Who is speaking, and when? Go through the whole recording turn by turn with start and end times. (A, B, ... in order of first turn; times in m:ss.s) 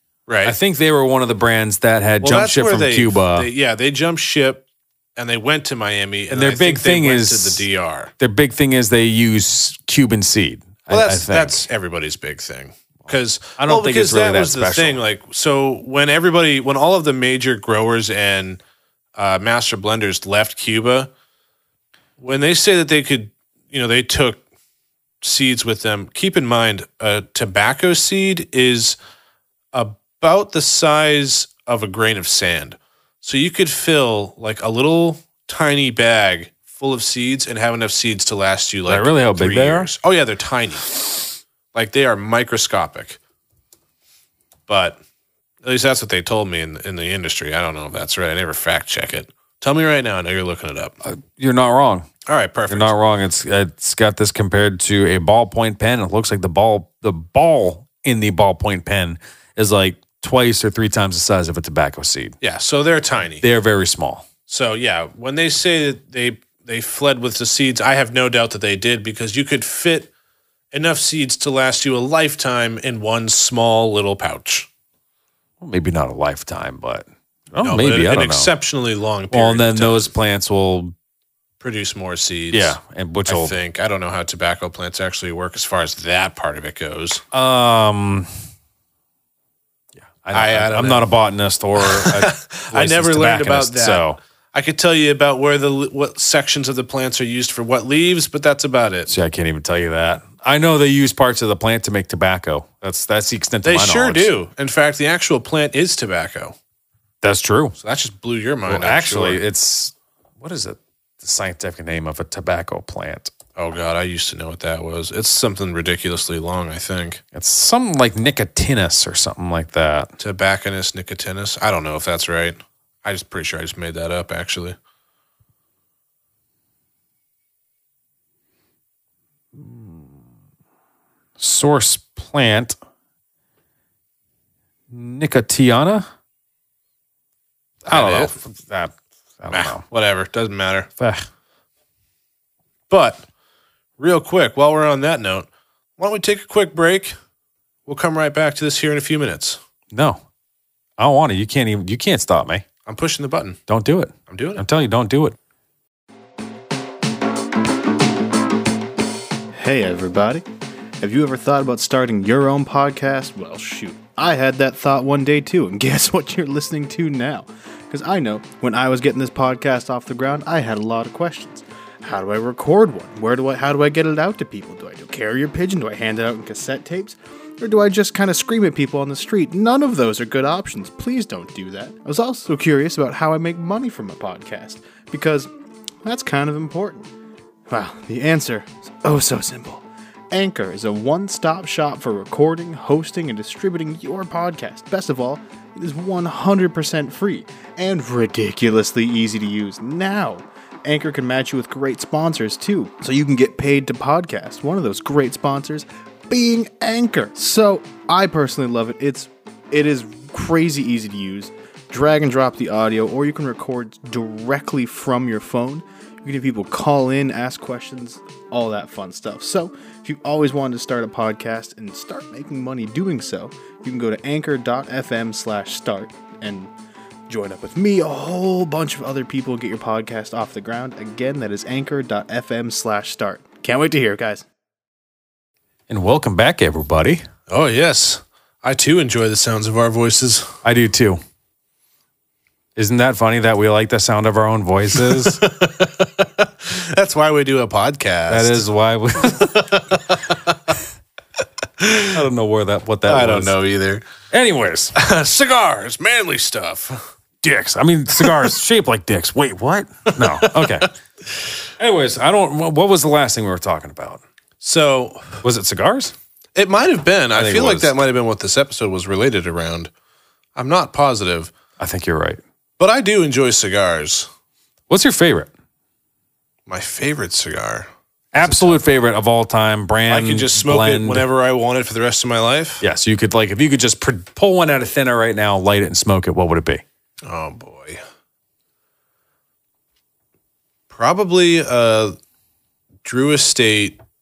0:00.3-0:00.6 A
0:00.4-0:03.5 B
0:02.2-0:08.1 A
0:06.3-0:07.6 B
0:08.2-0:11.7 B
0:10.9-0:18.6 A
0:13.6-0:15.0 B
0:19.2-0:21.1 A
0:22.2-0:24.4 A
0:25.2-0:29.0 A
0:29.7-0:43.2 A
0:38.9-0:39.9 B
0:44.7-0:45.0 A
0:45.6-0:51.0 A
0:51.0-0:52.1 B
0:52.3-0:52.9 A
0:52.7-1:02.4 B
1:02.4-1:03.5 A
1:03.4-1:04.3 B
1:04.5-1:10.1 A
1:10.7-1:14.7 A
1:15.6-1:18.5 B
1:17.6-1:20.1 A
1:19.3-1:20.9 B
1:21.6-1:27.2 A
1:22.5-1:23.6 B
1:27.3-1:28.3 B
1:30.2-1:34.2 B
1:30.3-1:31.1 A
1:31.8-1:39.1 A
1:39.1-1:44.3 B
1:43.6-1:46.6 A
1:47.2-1:47.8 B
1:47.8-1:49.4 A
1:48.7-1:53.3 B
1:53.6-1:57.2 A
1:57.3-2:00.1 B
2:00.2-2:04.8 A
2:09.6-2:10.0 B
2:11.4-2:12.8 B
2:14.9-2:16.1 B
2:17.9-2:18.4 A
2:17.9-2:19.8 B
2:19.5-2:20.9 A
2:21.0-2:21.3 B
2:22.9-2:23.2 A
2:24.0-2:27.2 A
2:27.9-2:29.6 A
2:29.9-2:30.2 B
2:31.0-2:32.6 B
2:32.9-2:33.6 A
2:33.7-2:35.4 B
2:34.3-2:34.6 A
2:39.5-2:40.4 C
2:41.0-3:05.5 C
3:06.0-3:07.1 C
3:07.7-3:46.7 C
3:47.3-3:54.5 C
3:55.9-3:57.2 B
3:57.5-4:00.6 A
4:00.6-4:01.2 B
4:02.8-4:05.4 B
4:04.9-4:08.7 A
4:08.3-4:09.6 B
4:09.2-4:10.8 A
4:11.8-4:12.2 A
4:12.1-4:13.5 B
4:13.1-4:14.0 A
4:14.3-4:14.9 B
4:15.0-4:17.0 A
4:17.4-4:20.9 B
4:18.2-4:18.5 A
4:20.1-4:20.8 A
4:21.8-4:24.2 B
4:24.6-4:25.4 A
4:25.4-4:26.1 B
4:26.6-4:29.9 A
4:27.4-4:27.9 B
4:30.6-4:31.5 A
4:31.8-4:32.4 B
4:32.8-4:34.3 A
4:34.9-4:35.5 B
4:36.7-4:37.9 A
4:38.3-4:41.3 B
4:38.4-4:38.8 A
4:40.1-4:42.8 A
4:42.8-4:46.8 B
4:47.3-4:48.0 A
4:50.9-4:52.2 A
4:53.0-4:54.0 A